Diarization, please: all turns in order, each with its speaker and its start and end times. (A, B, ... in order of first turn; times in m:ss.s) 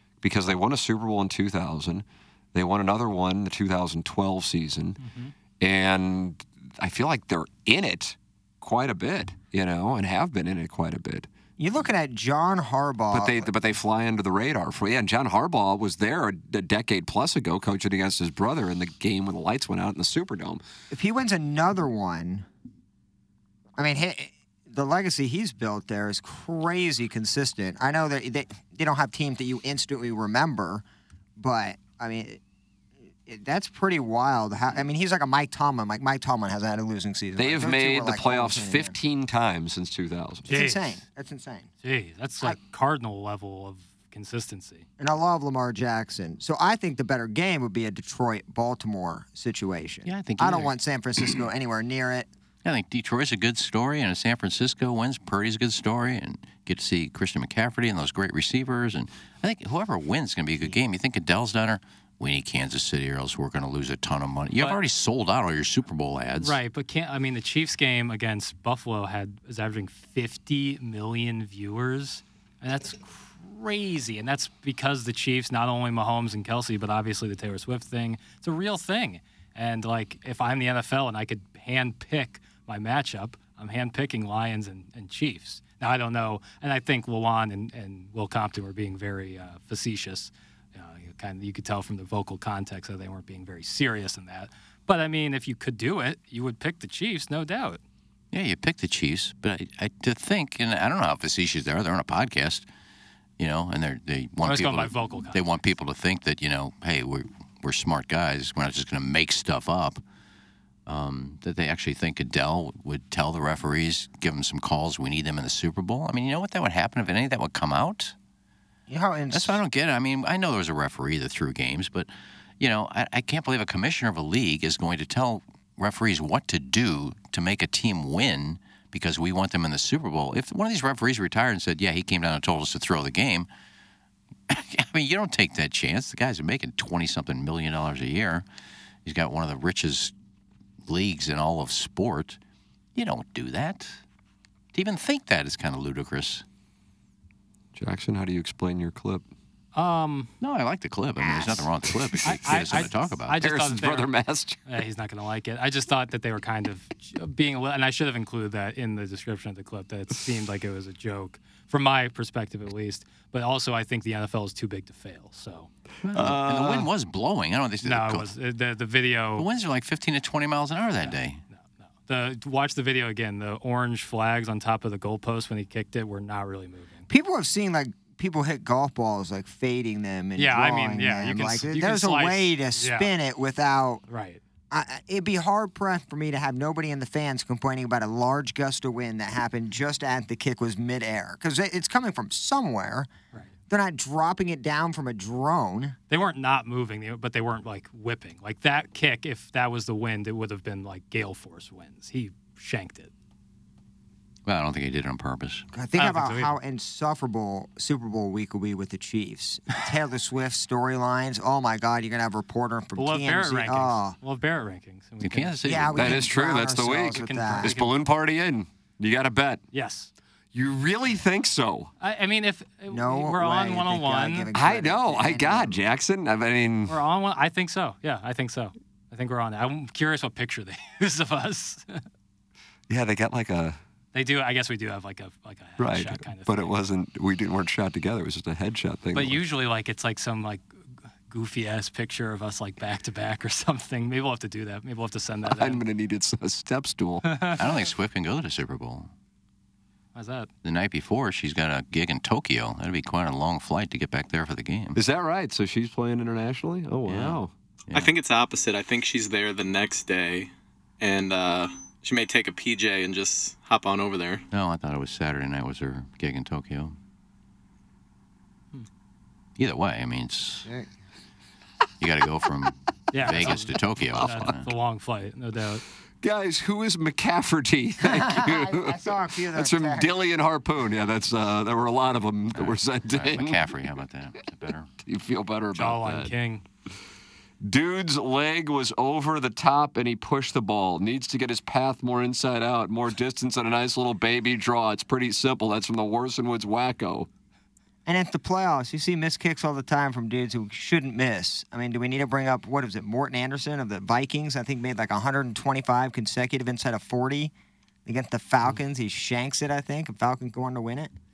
0:00.2-0:05.0 A
0:05.0-0:05.3 B
0:05.6-0:11.3 A
0:11.6-0:13.5 C
0:13.1-0:20.6 A
0:20.9-0:22.4 C
0:23.8-0:30.8 C
0:31.4-0:32.4 C
0:33.2-0:39.0 C
0:37.4-0:40.5 A
0:40.4-0:41.7 C
0:40.5-0:41.0 B
0:41.8-0:44.8 B
0:45.0-0:52.3 C
0:50.0-0:50.7 D
0:52.6-1:06.6 D
1:06.4-1:37.8 B
1:38.3-1:42.7 D
1:43.4-1:50.0 D
1:44.4-1:45.5 B
1:50.8-1:58.1 D
1:58.9-1:59.6 C
1:59.3-2:13.5 D
2:14.5-2:18.4 D
2:19.0-2:20.1 D
2:20.8-2:22.4 D
2:22.9-2:24.0 D
2:24.7-2:26.4 D
2:27.7-2:29.2 A
2:29.7-2:30.3 B
2:30.4-2:33.4 D
2:31.2-2:31.7 C
2:32.1-2:32.8 A
2:32.2-2:34.1 B
2:33.4-2:34.6 A
2:34.6-2:45.7 B
2:46.0-2:48.3 D
2:46.1-2:46.9 A
2:47.8-2:49.4 B
2:49.3-2:51.4 D
2:51.0-2:57.0 B
2:57.1-3:04.0 C
3:00.4-3:03.1 B
3:04.1-3:04.4 B
3:04.7-3:13.1 C
3:13.7-3:16.0 C
3:16.1-3:23.1 B
3:24.4-3:25.7 D
3:25.7-3:34.2 C
3:25.9-3:26.6 B
3:33.0-3:35.6 B
3:35.2-3:36.3 D
3:35.6-3:37.7 C
3:35.9-3:39.6 A
3:37.1-3:37.9 B
3:39.7-3:40.1 B
3:40.5-3:41.9 A
3:42.0-3:44.5 B
3:42.9-3:45.8 C
3:44.5-3:47.0 A
3:46.9-3:52.0 B
3:52.9-3:53.8 A
3:54.1-3:56.7 B
3:55.8-3:59.4 A
3:59.1-4:00.7 B
4:01.3-4:05.8 B
4:05.5-4:07.2 A
4:07.2-4:07.6 B
4:07.5-4:09.1 D
4:10.1-4:10.5 B
4:10.6-4:15.0 D
4:15.0-4:17.5 A
4:17.0-4:18.1 D
4:17.9-4:20.5 E
4:21.0-4:24.4 E
4:24.5-4:27.0 D
4:29.6-4:30.7 D
4:32.0-4:34.7 D
4:33.1-4:35.8 B
4:34.1-4:34.5 A
4:36.2-4:39.0 A
4:38.0-4:40.1 C
4:39.5-4:43.6 A
4:42.6-4:44.9 D
4:45.0-4:46.3 A
4:45.7-4:46.6 B
4:47.6-4:57.3 A
4:58.0-5:07.5 C
5:08.0-5:11.1 C